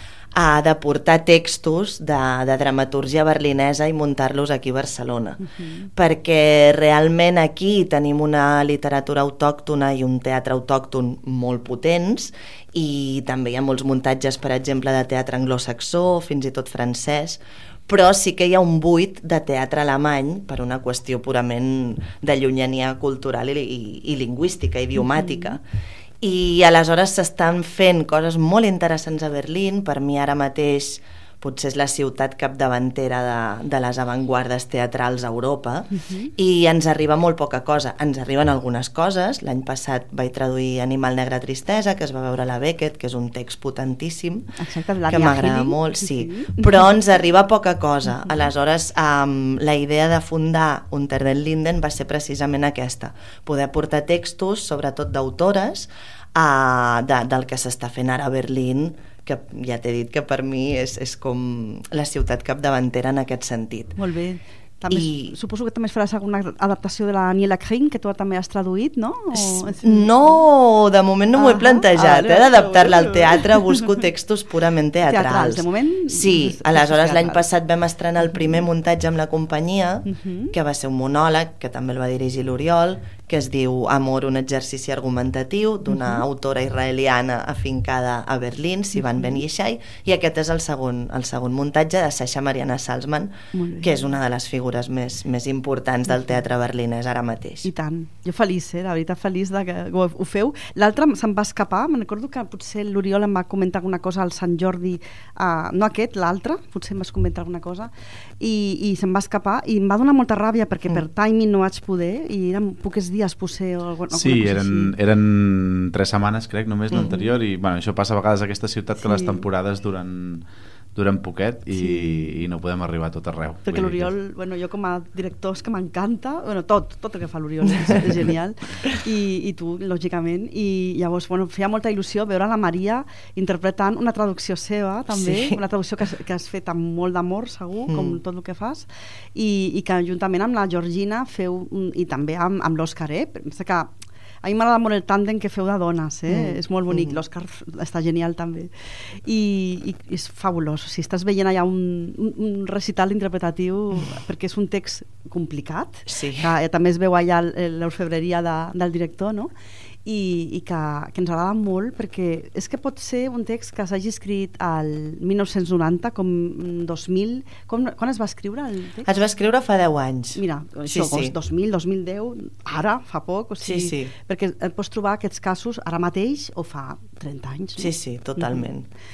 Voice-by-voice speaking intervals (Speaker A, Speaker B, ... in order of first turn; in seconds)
Speaker A: 0.3-5.4, 5.9-25.6, 26.2-44.5, 45.1-64.0, 64.9-65.3, 69.3-97.7, 135.1-135.6, 137.9-138.2, 146.3-147.2, 156.1-156.5, 169.0-171.3, 173.6-174.1, 177.8-178.9
Speaker B: 5.4-5.9, 25.0-25.6, 36.0-36.3, 44.6-46.8, 64.0-70.4, 71.3-74.0, 75.0-77.5, 80.0-80.5, 85.9-86.2, 93.5-93.9, 97.6-114.9, 119.0-119.4, 121.7-122.4, 123.6-143.9, 144.4-159.5, 160.0-169.1, 170.3-178.7
Speaker C: 114.1-124.1